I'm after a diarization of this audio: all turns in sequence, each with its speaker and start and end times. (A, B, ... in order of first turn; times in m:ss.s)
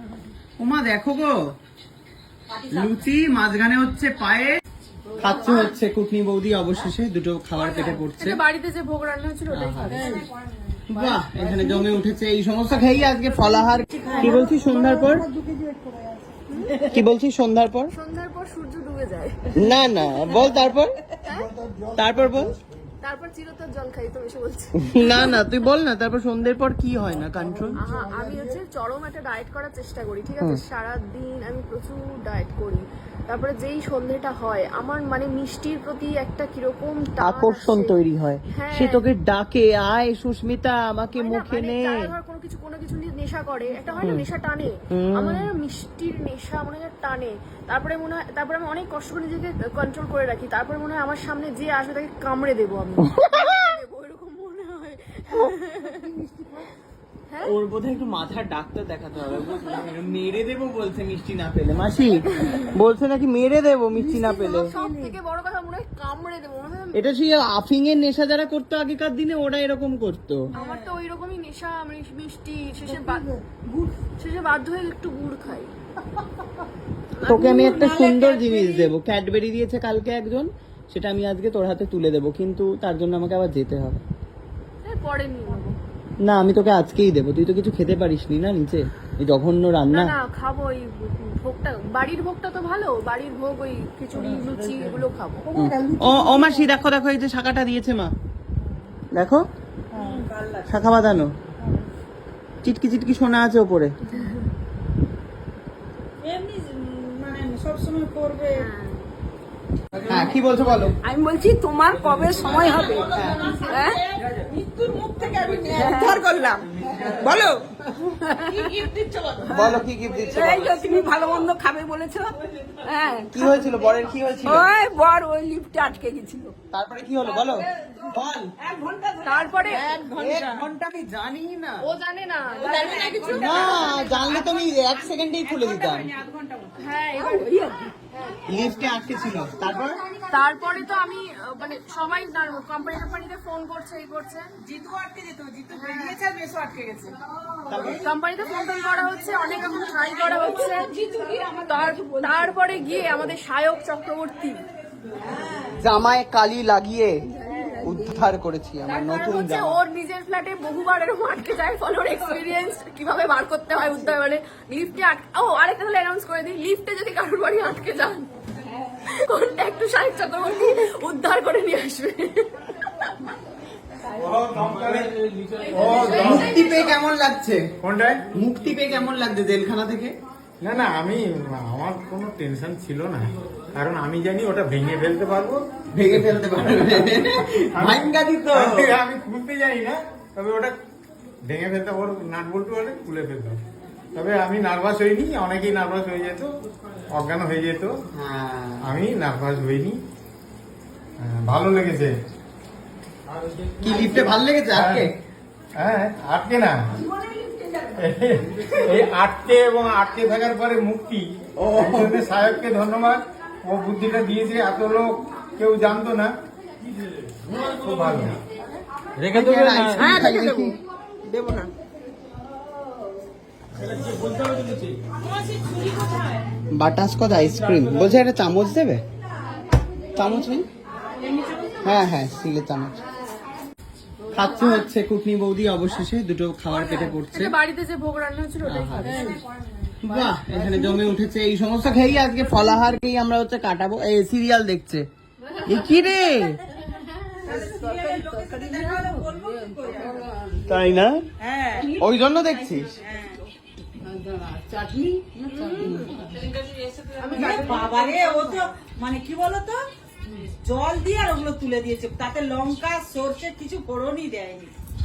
0:00.6-0:01.4 A
0:02.5-0:03.1 B
0:02.7-0:04.6 A
0:05.2-0:05.6 B
0:05.2-0:08.4 A
0:07.5-0:10.2 C
0:09.5-0:10.1 A
0:09.9-0:11.9 B
0:10.9-0:15.3 A
0:13.5-0:17.0 B
0:16.5-0:16.8 C
0:16.9-0:17.9 A
0:17.9-0:19.5 C
0:19.6-0:20.9 A
0:21.2-0:21.5 C
0:21.9-0:22.6 A
0:23.0-0:25.5 C
0:24.8-0:27.8 A
0:27.7-0:37.9 C
0:37.2-0:42.1 A
0:38.5-0:39.0 C
0:41.1-0:56.1 C
0:44.9-0:45.5 A
0:56.2-0:56.5 B
0:57.3-0:57.5 C
0:57.4-1:04.7 A
1:02.3-1:02.7 C
1:04.0-1:05.1 B
1:04.6-1:07.0 C
1:06.9-1:10.5 A
1:10.5-1:11.0 B
1:10.5-1:13.2 C
1:12.9-1:13.9 B
1:14.2-1:15.7 C
1:17.2-1:17.8 C
1:17.2-1:24.0 A
1:17.3-1:18.9 B
1:24.8-1:25.8 C
1:26.2-1:30.1 A
1:29.9-1:35.5 C
1:35.4-1:36.7 B
1:35.6-1:38.1 A
1:39.1-1:39.5 A
1:39.9-1:40.8 B
1:40.7-1:41.3 A
1:42.6-1:43.9 A
1:46.2-1:48.7 B
1:48.5-1:49.1 C
1:50.0-1:50.9 A
1:51.0-1:53.1 D
1:52.4-1:57.3 B
1:53.1-1:53.6 A
1:53.6-1:54.0 C
1:53.7-1:54.0 D
1:55.7-1:57.7 D
1:55.9-1:56.1 C
1:58.2-1:58.9 D
1:58.4-2:00.3 B
1:59.4-2:00.7 A
2:00.3-2:03.5 D
2:00.8-2:01.2 B
2:03.3-2:04.7 A
2:04.4-2:06.5 D
2:06.7-2:08.5 A
2:07.4-2:08.1 B
2:08.6-2:10.0 B
2:09.2-2:10.0 C
2:09.7-2:11.8 A
2:10.2-2:10.4 D
2:11.8-2:14.2 C
2:12.5-2:16.7 B
2:13.3-2:16.1 A
2:16.8-2:18.4 C
2:17.4-2:17.7 D
2:18.5-2:20.0 A
2:20.3-2:24.5 C
2:24.6-2:27.2 B
2:25.7-2:26.2 C
2:27.7-2:28.0 A
2:27.8-2:30.9 C
2:29.9-2:30.5 B
2:30.5-2:32.7 D
2:31.4-2:34.6 C
2:35.2-2:35.8 B
2:35.8-2:37.2 A
2:37.5-2:38.0 D
2:37.5-2:38.0 C
2:37.8-2:39.8 A
2:38.9-2:48.3 C
2:49.0-2:53.1 C
2:54.2-2:55.2 E
2:55.7-2:57.0 C
2:55.7-2:56.6 E
2:56.1-2:57.7 A
2:57.8-2:58.2 E
2:58.3-3:00.1 A
3:00.6-3:07.1 E
3:05.9-3:08.9 A
3:07.7-3:10.7 E
3:11.4-3:13.6 E
3:14.1-3:16.5 E
3:17.1-3:17.9 E
3:18.1-3:18.9 A
3:18.8-3:20.0 E
3:21.2-3:22.1 E
3:23.8-3:25.1 A
3:24.7-3:25.1 E
3:25.8-3:26.8 E
3:28.0-3:36.3 E
3:31.6-3:32.2 A
3:37.6-3:38.4 E
3:39.2-3:40.3 E
3:39.3-3:40.8 A
3:40.0-3:40.8 D
3:41.3-3:41.7 D
3:45.2-3:46.4 B
3:46.7-3:49.0 A
3:50.1-3:50.7 A
3:51.2-3:52.1 B
3:51.8-3:52.9 A
3:54.3-3:57.6 A
3:56.7-3:59.4 C
3:58.6-3:59.4 A
3:59.0-4:01.1 B
4:00.0-4:05.1 A
4:05.6-4:06.6 A
4:07.4-4:10.3 B
4:10.6-4:11.2 A
4:11.4-4:12.0 B
4:12.0-4:13.0 A
4:12.7-4:13.4 B
4:14.2-4:16.4 B
4:15.4-4:16.2 C
4:17.2-4:19.8 B
4:17.2-4:18.3 C
4:20.3-4:24.7 B